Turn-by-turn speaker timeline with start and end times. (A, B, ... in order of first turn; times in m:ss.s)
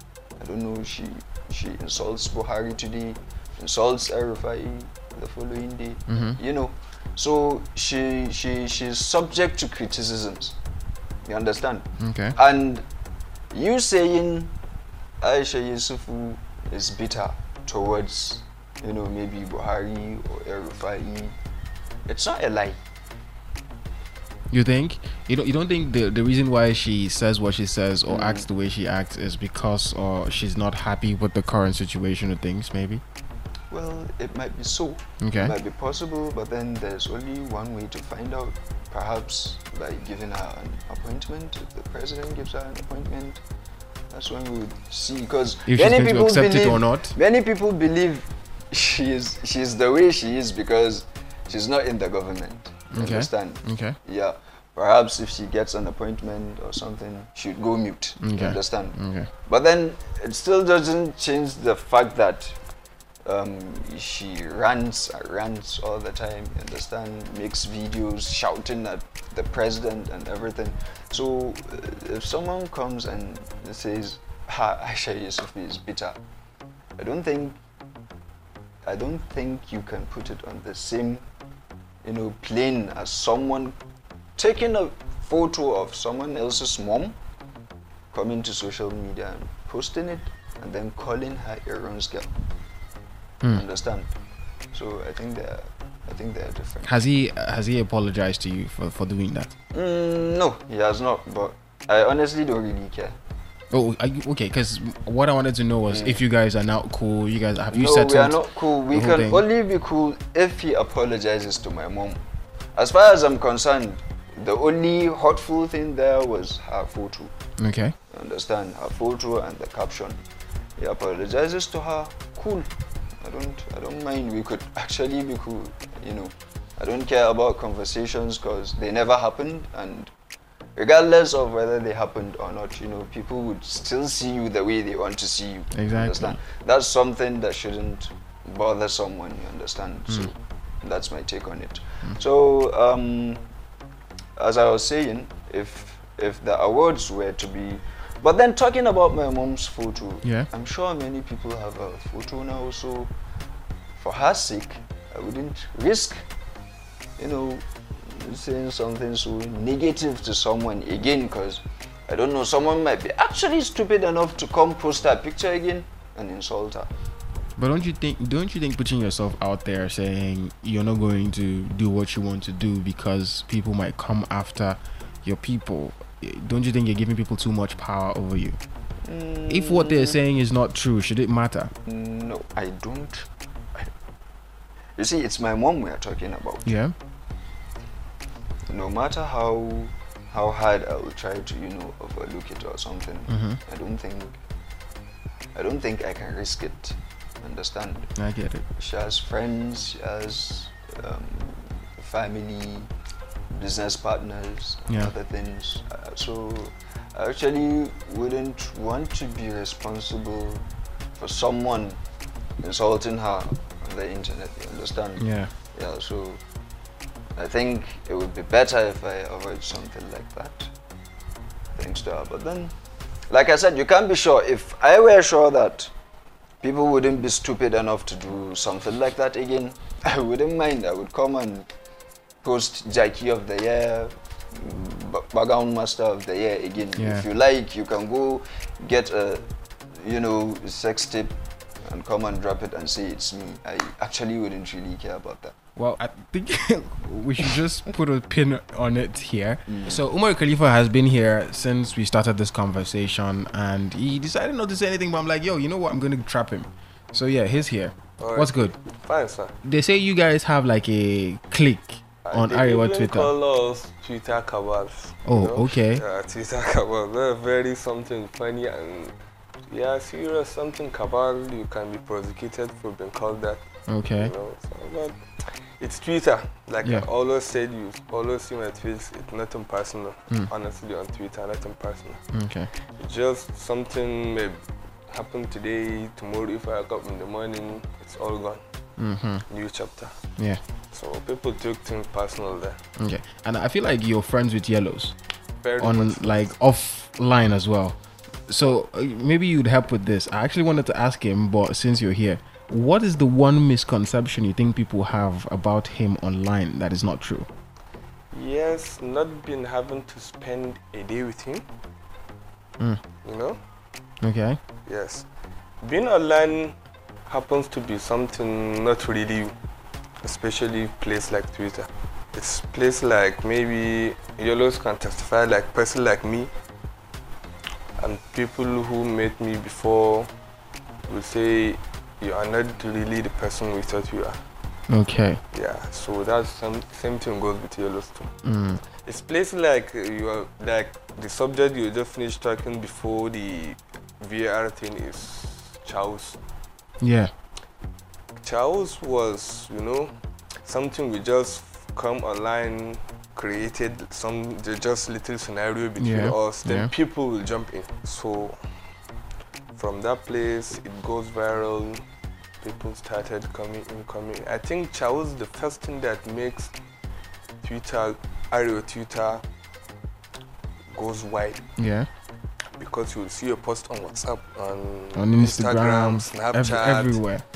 0:00.4-0:10.6 A
0:06.1-0:06.4 B
0:11.2-0:12.8 A
0:12.0-0:12.4 B
0:13.5-0:14.5 A
0:15.2-0:21.3 A
0:22.0-0:22.8 A
0:24.5-0:33.0 B
0:28.1-0:28.5 A
0:33.7-0:43.4 A
0:35.2-0:35.5 B
0:44.1-1:02.6 A
0:45.6-0:47.2 B
0:52.9-0:54.0 B
0:58.2-0:59.3 B
1:03.2-1:16.2 A
1:17.0-1:17.6 A
1:18.8-1:21.2 A
1:22.0-1:23.8 A
1:24.4-1:27.2 A
1:28.1-1:32.3 A
1:33.5-1:34.1 A
1:34.7-1:36.9 A
1:36.8-1:39.5 B
1:39.7-1:43.1 A
1:43.7-1:48.4 B
1:45.8-1:46.2 A
1:47.7-1:52.2 A
1:48.9-1:49.4 B
1:52.7-1:57.3 A
1:57.6-1:57.9 B
1:58.1-2:00.2 A
2:00.8-2:02.6 A
2:03.2-2:10.1 A
2:10.8-2:23.4 A
2:15.7-2:16.4 B
2:24.4-2:33.1 A
2:30.2-2:30.5 B
2:34.0-2:36.2 A
2:37.2-2:46.9 A
2:47.6-2:58.6 B
2:59.0-3:00.2 A
2:59.5-3:01.7 B
3:01.8-3:03.9 A
3:05.0-3:06.7 A
3:06.6-3:06.9 B
3:08.7-3:14.4 A
3:13.3-3:13.6 B
3:15.5-3:18.1 A
3:18.2-3:18.6 B
3:18.8-3:22.9 A
3:23.5-3:30.6 A
3:31.2-3:32.0 A
3:32.6-3:36.4 A
3:35.2-3:35.5 B
3:37.4-3:40.7 A
3:41.8-3:42.7 A
3:43.3-3:45.9 A
3:46.6-3:51.7 A
3:52.4-3:59.4 A
3:57.0-3:57.2 B
4:00.0-4:05.5 A
4:05.8-4:18.8 B
4:09.7-4:10.0 A
4:18.2-4:19.6 C
4:19.6-4:23.3 B
4:22.2-4:29.1 C
4:25.2-4:26.0 B
4:29.7-4:42.2 C
4:33.9-4:34.3 B
4:42.3-4:42.7 B
4:43.0-4:48.6 C
4:49.0-4:49.4 B
4:49.5-4:50.1 C
4:50.9-4:52.8 C
4:53.0-4:55.2 B
4:55.6-4:56.5 C
4:55.8-5:07.5 B
5:08.3-5:11.6 C
5:13.2-5:13.6 C
5:14.2-5:14.6 B
5:14.8-5:15.3 C
5:15.8-5:16.8 C
5:17.3-5:19.5 C
5:20.2-5:26.5 C
5:28.0-5:30.3 C
5:31.1-5:34.4 C
5:34.9-5:35.4 B
5:35.5-5:38.3 C
5:38.4-5:38.8 B
5:39.0-5:46.4 C
5:47.0-5:47.3 B
5:48.4-5:58.6 C
5:56.0-5:56.9 B
5:59.8-6:02.0 C
6:02.6-6:06.7 C
6:07.6-6:09.4 C
6:10.9-6:11.6 C
6:11.8-6:12.1 B
6:12.7-6:17.2 C
6:15.1-6:17.4 B